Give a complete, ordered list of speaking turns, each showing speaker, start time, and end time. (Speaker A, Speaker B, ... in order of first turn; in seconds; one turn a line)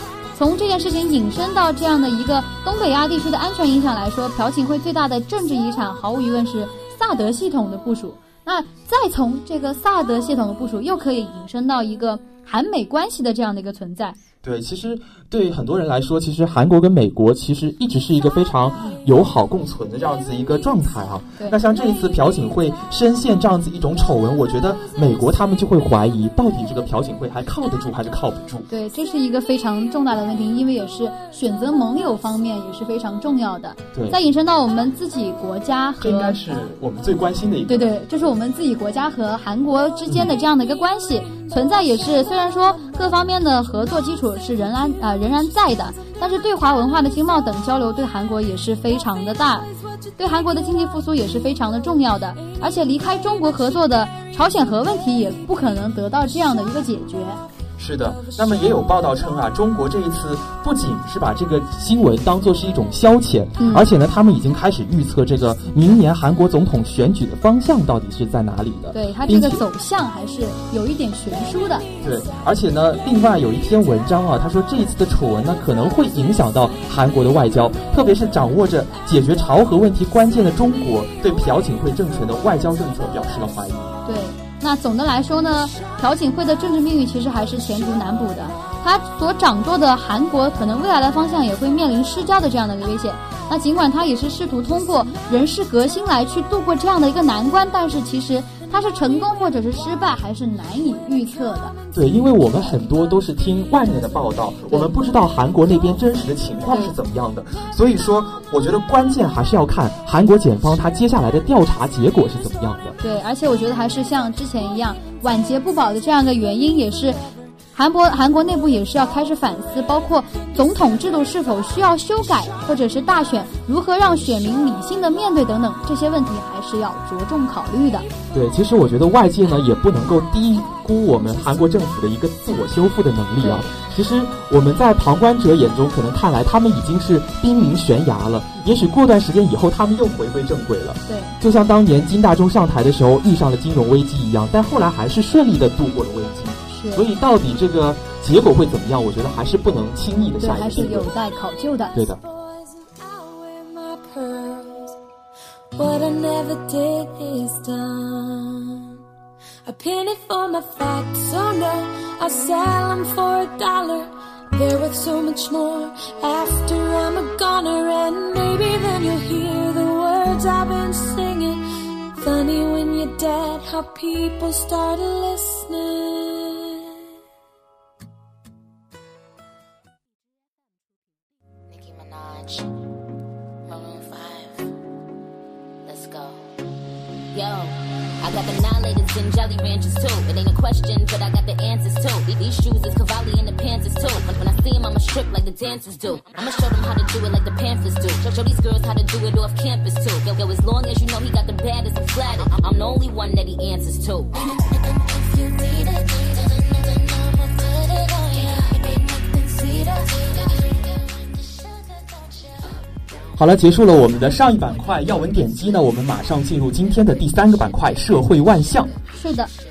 Speaker A: 0.3-14.2
Speaker B: 14.4-28.7
Speaker A: 28.7-36.4
Speaker B: 33.9-34.2
Speaker B: 36.0-38.0
Speaker A: 37.7-57.4
Speaker B: 57.8-69.7
Speaker A: 63.6-63.9
Speaker A: 68.9-71.9
Speaker B: 72.0-83.9
Speaker A: 84.1-101.8
Speaker B: 101.9-113.0
Speaker A: 113.0-117.2
Speaker A: 117.7-128.1
Speaker B: 128.3-151.1
Speaker A: 133.4-133.7
Speaker A: 141.1-141.4
Speaker A: 146.7-147.1
Speaker A: 150.4-152.0
Speaker B: 151.9-152.2
Speaker C: 152.3-154.9
Speaker C: 155.8-158.9
Speaker C: 159.7-171.6
Speaker C: 172.2-177.0
Speaker D: 181.7-182.7
Speaker D: 183.7-184.7
Speaker D: 185.9-186.5
Speaker D: 187.3-205.0
Speaker D: 205.5-207.7
Speaker D: 208.3-209.0
Speaker B: 213.4-218.9
Speaker A: 219.1-219.5